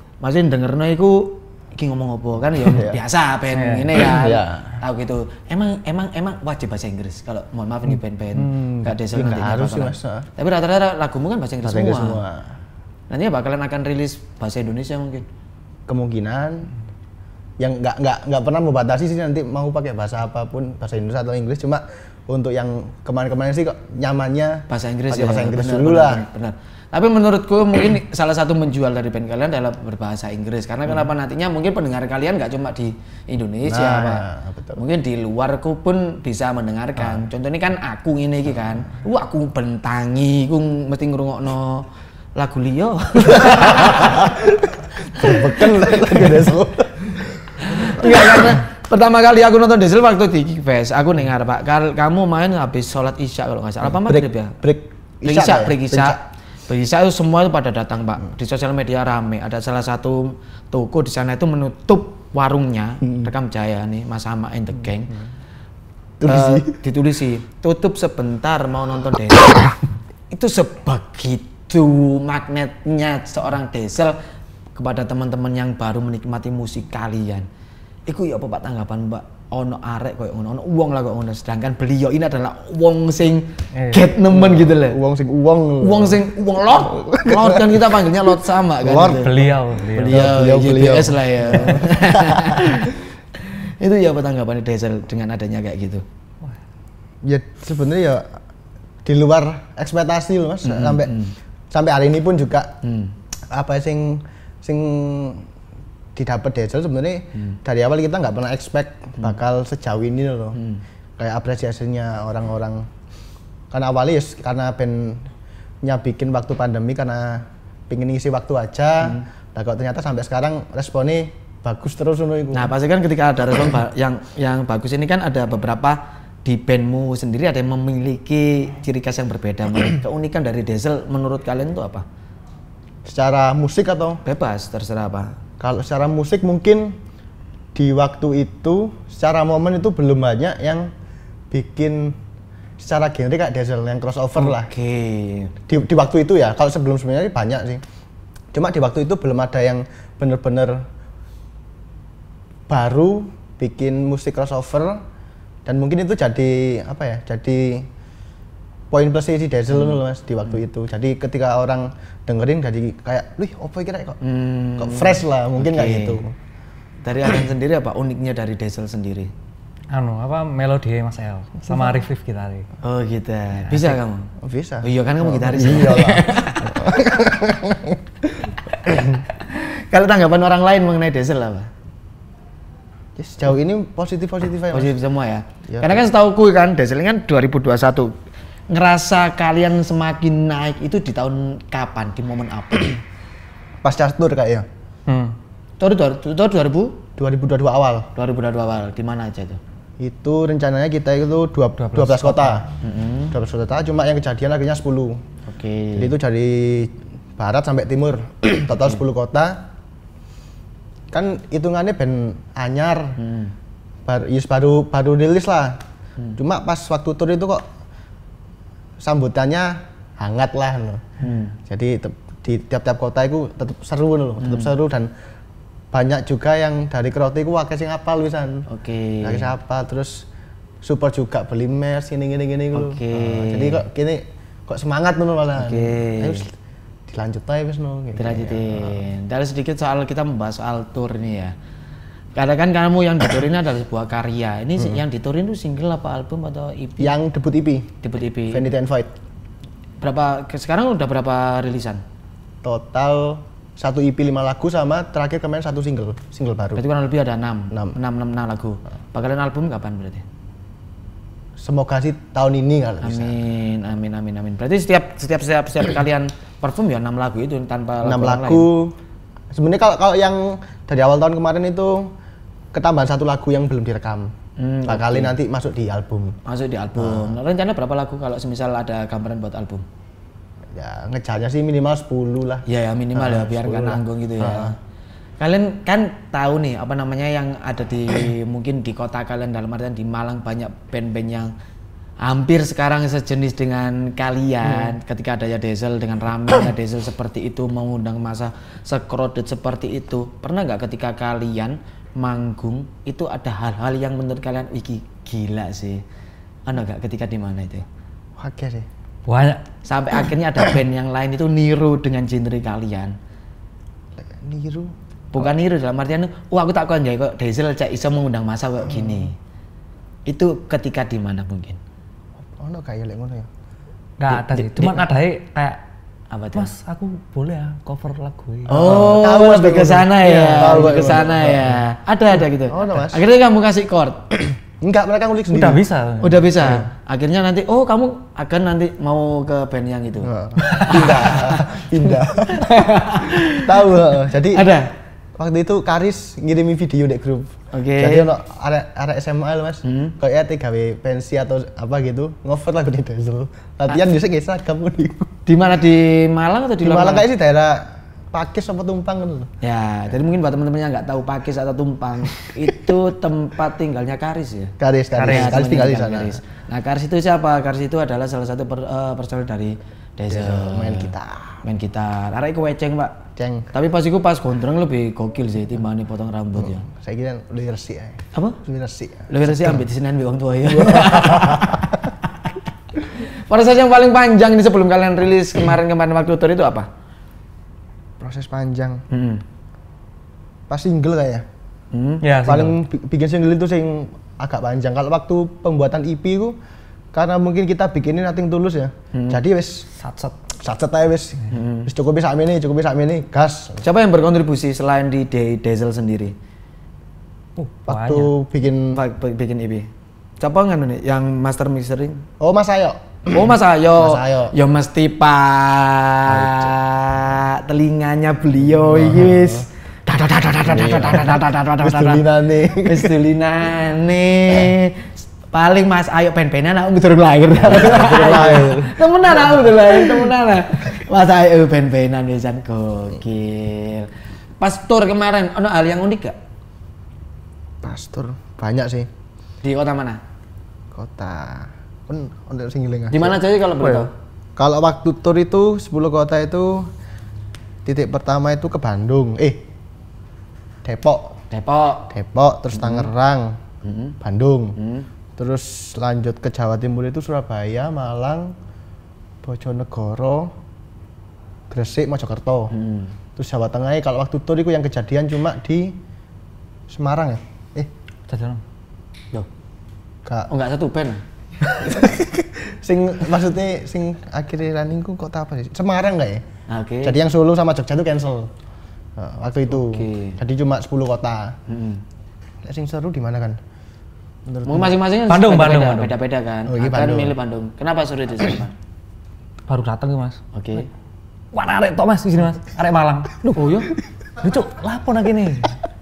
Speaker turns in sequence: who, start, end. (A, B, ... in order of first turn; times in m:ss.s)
0:00.2-0:12.2 A
0:02.6-0:03.0 B
0:03.5-0:04.1 C
0:04.0-0:04.8 B
0:08.4-0:08.6 C
0:09.0-0:10.3 B
0:11.6-0:12.5 B
0:13.1-0:15.3 A
0:15.9-0:16.7 B
0:17.6-0:26.2 B
0:24.7-0:44.3 A
0:33.6-0:34.8 B
0:43.4-0:48.5 B
0:45.2-0:46.1 A
0:47.6-0:54.5 A
0:53.8-0:56.2 B
0:55.2-1:05.2 A
1:06.2-1:06.8 B
1:06.2-1:09.7 A
1:10.3-1:14.2 A
1:14.7-1:17.5 A
1:18.1-1:25.0 A
1:23.7-1:24.1 C
1:24.3-1:26.2 B
1:25.8-1:36.0 A
1:26.8-1:27.8 B
1:28.8-1:29.3 B
1:29.0-1:30.3 C
1:30.0-1:32.9 B
1:37.2-1:38.3 B
1:39.0-1:41.1 B
1:40.6-1:41.3 A
1:41.7-1:42.8 B
1:42.8-1:43.1 A
1:43.5-1:45.5 B
1:46.1-1:50.6 B
1:50.6-1:50.8 A
1:51.2-1:52.9 B
1:53.7-1:55.3 B
1:55.8-2:02.7 B
2:02.5-2:12.0 A
2:13.0-2:14.2 B
2:14.2-2:15.3 A
2:15.6-2:17.0 B
2:17.7-2:20.9 B
2:21.5-2:22.2 B
2:22.8-2:24.7 B
2:24.4-2:25.5 A
2:25.7-2:27.8 B
2:28.5-2:30.8 B
2:32.7-2:35.0 B
2:35.6-2:37.9 B
2:38.9-2:44.2 B
2:39.7-2:40.0 A
2:44.2-2:46.2 A
2:44.8-2:46.3 B
2:47.0-2:49.3 A
2:49.9-2:52.7 C
2:52.8-2:56.9 A
2:53.7-2:54.0 C
2:54.4-2:59.1 B
2:58.8-3:01.7 A
3:03.2-3:04.9 B
3:04.7-3:08.1 A
3:05.7-3:06.0 B
3:08.7-3:13.0 A
3:13.8-3:14.7 B
3:15.1-3:15.4 C
3:15.8-3:17.0 A
3:17.2-3:18.1 B
3:18.1-3:19.6 A
3:20.0-3:22.7 B
3:21.8-3:22.6 C
3:22.8-3:23.3 A
3:23.3-3:25.2 B
3:25.5-3:26.1 A
3:25.9-3:29.7 B
3:31.1-3:33.2 B
3:33.2-3:33.5 A
3:34.0-3:35.8 B
3:36.4-3:37.6 B
3:39.0-3:41.0 B
3:41.2-3:41.6 A
3:41.7-3:45.1 B
3:44.4-3:44.7 A
3:45.9-3:48.6 B
3:48.7-3:49.5 A
3:49.2-3:50.2 B
3:50.8-3:56.5 B
3:52.7-3:53.8 A
3:55.6-3:56.4 A
3:57.1-3:59.0 B
3:58.2-4:01.5 A
4:02.3-4:07.1 A
4:07.0-4:09.1 B
4:08.0-4:08.7 A
4:10.0-4:12.0 A
4:12.6-4:16.8 B
4:16.7-4:20.2 A
4:17.7-4:18.0 B
4:21.6-4:23.4 B
4:23.0-4:28.7 A
4:28.0-4:29.0 B
4:29.5-4:32.1 B
4:32.7-4:34.3 B
4:34.6-4:35.4 A
4:34.8-4:36.4 B
4:36.4-4:39.8 A
4:37.0-4:37.4 B
4:40.7-4:44.7 B
4:42.6-4:44.8 A
4:45.4-4:51.5 A
4:52.2-5:06.0 A
5:06.6-5:07.8 A
5:08.4-5:08.9 B
5:09.2-5:09.6 C
5:09.8-5:13.1 A
5:14.2-5:15.5 B
5:15.3-5:19.3 A
5:20.3-5:21.8 A
5:22.4-5:23.5 B
5:24.2-5:25.8 C
5:24.3-5:25.0 A
5:26.3-5:26.7 A
5:26.5-5:29.0 C
5:28.7-5:34.4 A
5:28.7-5:31.8 B
5:32.7-5:33.2 B
5:34.8-5:35.8 B
5:35.5-5:36.8 C
5:36.2-5:41.8 A
5:40.2-5:44.7 B
5:40.6-5:41.2 C
5:42.5-5:44.9 A
5:45.4-5:55.3 B
5:47.7-5:48.3 A
5:49.8-5:50.1 A
5:55.4-5:57.3 A
5:56.8-5:59.5 B
5:59.6-6:04.7 A
6:04.8-6:06.4 B
6:05.1-6:05.7 C
6:05.2-6:16.8 A
6:10.3-6:11.6 B
6:13.4-6:13.7 B
6:16.6-6:19.8 B
6:19.3-6:22.5 A
6:20.7-6:21.9 B
6:23.1-6:26.9 A
6:28.2-6:29.0 B
6:29.1-6:29.4 A
6:30.7-6:31.4 B
6:31.9-6:32.2 A
6:32.2-6:32.7 C
6:32.4-6:36.6 B
6:37.1-6:39.9 B
6:39.1-6:39.4 A
6:40.0-6:40.4 C
6:40.6-6:43.8 B
6:41.5-6:41.9 A
6:43.8-6:46.3 A
6:47.6-6:48.3 C
6:47.9-6:49.0 B
6:48.9-6:49.9 A
6:50.4-6:52.2 A
6:52.4-6:54.5 B
6:53.3-7:14.1 A
6:56.3-6:56.7 B
6:58.6-6:59.6 B
7:00.6-7:03.2 B
7:07.6-7:10.3 B
7:14.6-7:16.4 A
7:17.8-7:19.1 B
7:19.6-7:20.2 A
7:20.9-7:23.4 B
7:23.1-7:24.1 A
7:23.8-7:24.1 C
7:24.6-7:26.9 B
7:27.8-7:29.6 B
7:30.8-7:31.4 B
7:31.5-7:32.1 A
7:32.1-7:33.6 B
7:32.8-7:33.1 A
7:33.8-7:34.2 A
7:34.2-7:34.8 B
7:34.8-7:35.1 A
7:35.4-7:38.6 B
7:39.4-7:40.6 B
7:41.7-7:42.7 B
7:42.7-7:43.1 A
7:43.4-7:46.0 B
7:46.9-7:47.9 B
7:48.3-7:48.6 C
7:50.5-7:51.2 A
7:51.6-7:56.4 B
7:56.7-7:57.2 A
7:57.0-7:58.5 B
7:59.2-8:01.6 B
7:59.7-8:00.4 A
8:01.7-8:02.0 A
8:02.6-8:03.6 B
8:04.5-8:05.0 B
8:04.6-8:08.7 A
8:05.3-8:06.1 C
8:06.6-8:07.4 B
8:09.7-8:10.4 C
8:10.5-8:10.9 A
8:11.5-8:13.5 C
8:13.4-8:13.9 A
8:14.4-8:15.8 C